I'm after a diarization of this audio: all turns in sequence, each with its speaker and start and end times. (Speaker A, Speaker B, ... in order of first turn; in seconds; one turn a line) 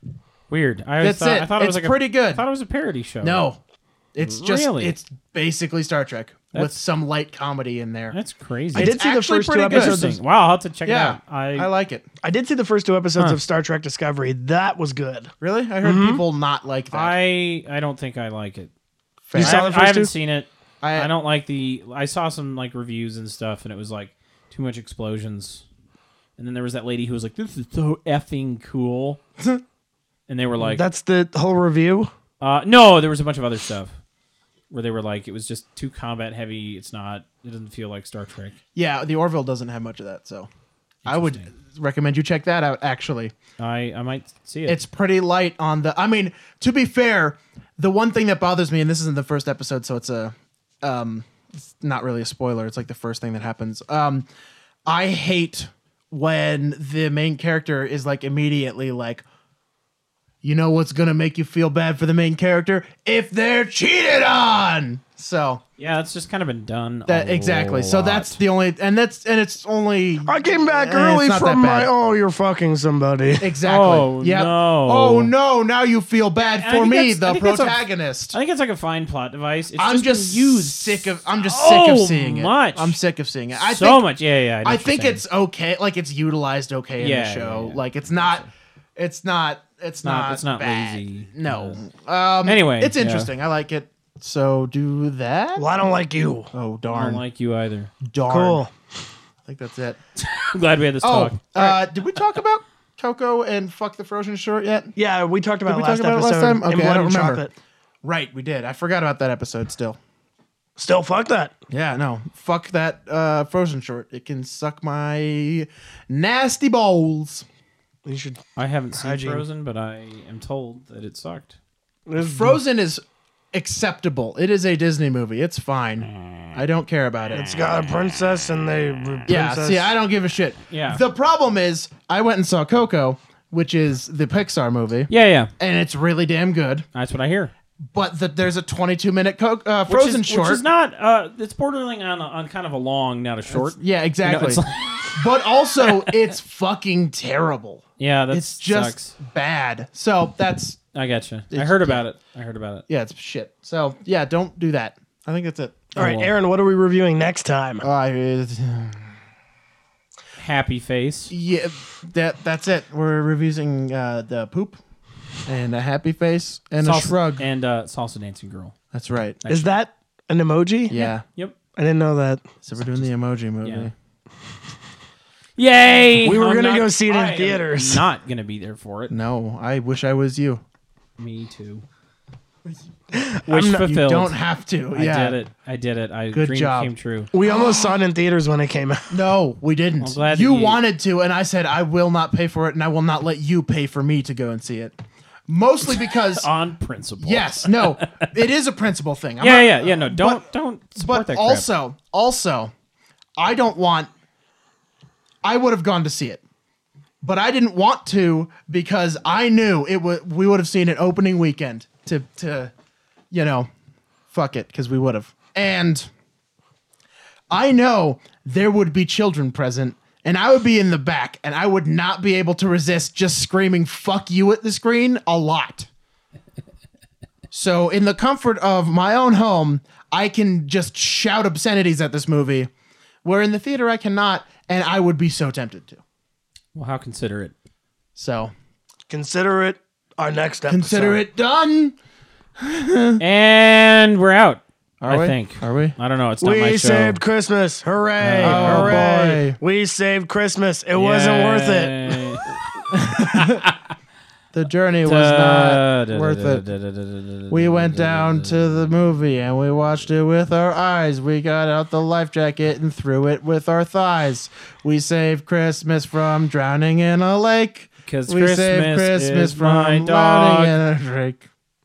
Speaker A: 0.5-3.4
Speaker B: 1.0-2.4
Speaker B: 3.2-3.6
Speaker B: 4.1-8.2
Speaker A: 4.2-5.0
Speaker A: 8.1-8.9
Speaker B: 8.7-10.0
Speaker C: 8.7-10.2
Speaker A: 9.7-11.7
Speaker B: 10.8-12.0
Speaker C: 12.2-15.3
Speaker B: 15.4-17.1
Speaker C: 15.8-16.2
Speaker A: 16.9-18.7
Speaker B: 19.2-19.6
Speaker A: 19.3-25.6
Speaker C: 19.3-20.1
Speaker B: 20.8-21.1
Speaker A: 26.4-29.2
Speaker A: 30.3-30.9
Speaker C: 30.6-32.1
Speaker A: 32.4-33.9
Speaker A: 34.7-38.6
Speaker B: 38.7-40.5
Speaker A: 41.0-41.5
Speaker B: 41.0-43.3
Speaker A: 43.6-44.8
Speaker B: 44.7-54.3
Speaker B: 54.9-59.2
Speaker B: 60.4-65.6
Speaker A: 65.8-68.4
Speaker B: 67.1-71.9
Speaker C: 70.2-73.5
Speaker B: 73.4-78.4
Speaker A: 73.6-75.3
Speaker A: 76.4-77.8
Speaker A: 78.3-83.0
Speaker B: 79.8-84.0
Speaker A: 83.6-85.2
Speaker B: 84.6-88.4
Speaker A: 87.0-88.5
Speaker B: 89.0-95.6
Speaker A: 90.0-91.8
Speaker A: 92.4-93.3
Speaker C: 95.5-96.5
Speaker B: 96.5-97.2
Speaker A: 96.9-97.9
Speaker B: 98.0-98.6
Speaker C: 98.3-98.7
Speaker B: 99.5-100.0
Speaker A: 100.2-101.7
Speaker B: 101.0-104.9
Speaker C: 105.0-107.5
Speaker B: 105.7-107.4
Speaker B: 108.0-110.0
Speaker C: 110.8-111.5
Speaker B: 111.7-117.5
Speaker C: 118.0-118.4
Speaker A: 118.5-121.6
Speaker C: 118.9-119.4
Speaker C: 122.1-122.6
Speaker B: 122.2-123.0
Speaker B: 123.5-127.5
Speaker C: 127.3-129.9
Speaker B: 129.3-136.9
Speaker A: 130.7-131.0
Speaker A: 135.1-135.5
Speaker A: 136.9-137.5
Speaker B: 137.9-140.6
Speaker A: 139.9-145.2
Speaker B: 143.5-150.8
Speaker A: 145.8-146.3
Speaker A: 148.0-149.1
Speaker A: 150.9-152.8
Speaker B: 151.5-152.0
Speaker B: 152.9-156.1
Speaker A: 155.9-156.3
Speaker C: 155.9-157.8
Speaker B: 157.8-159.1
Speaker A: 160.4-161.3
Speaker B: 161.3-164.8
Speaker B: 165.4-167.4
Speaker A: 166.8-168.7
Speaker B: 168.9-169.4
Speaker A: 169.4-169.7
Speaker C: 169.5-170.9
Speaker B: 170.9-171.2
Speaker A: 170.9-171.6
Speaker C: 171.8-172.5
Speaker B: 172.6-173.9
Speaker A: 173.6-173.9
Speaker A: 175.6-179.1
Speaker C: 176.2-178.0
Speaker B: 179.1-180.6
Speaker A: 181.2-181.8
Speaker C: 183.1-183.8
Speaker A: 183.5-184.3
Speaker B: 183.7-185.4
Speaker A: 184.9-187.3
Speaker B: 186.3-186.9
Speaker C: 187.3-189.1
Speaker B: 189.1-194.9
Speaker A: 190.0-190.8
Speaker B: 195.5-196.5
Speaker A: 196.3-198.3
Speaker B: 197.2-200.4
Speaker A: 199.4-201.7
Speaker B: 201.0-202.7
Speaker B: 203.4-204.1
Speaker B: 205.4-206.4
Speaker B: 207.2-212.7
Speaker B: 213.3-213.7
Speaker B: 214.3-216.1
Speaker B: 217.5-225.9
Speaker B: 227.5-232.7
Speaker B: 233.2-236.0
Speaker A: 236.7-237.5
Speaker B: 238.2-238.5
Speaker C: 239.1-241.2
Speaker B: 240.7-241.9
Speaker B: 242.6-243.2
Speaker A: 243.2-247.2
Speaker B: 245.0-245.9
Speaker C: 246.4-252.3
Speaker A: 248.2-249.1
Speaker B: 248.4-249.6
Speaker A: 250.9-252.5
Speaker B: 252.9-253.6
Speaker A: 253.3-253.8
Speaker B: 254.5-256.6
Speaker A: 255.0-259.0
Speaker B: 257.5-271.4
Speaker A: 268.0-270.7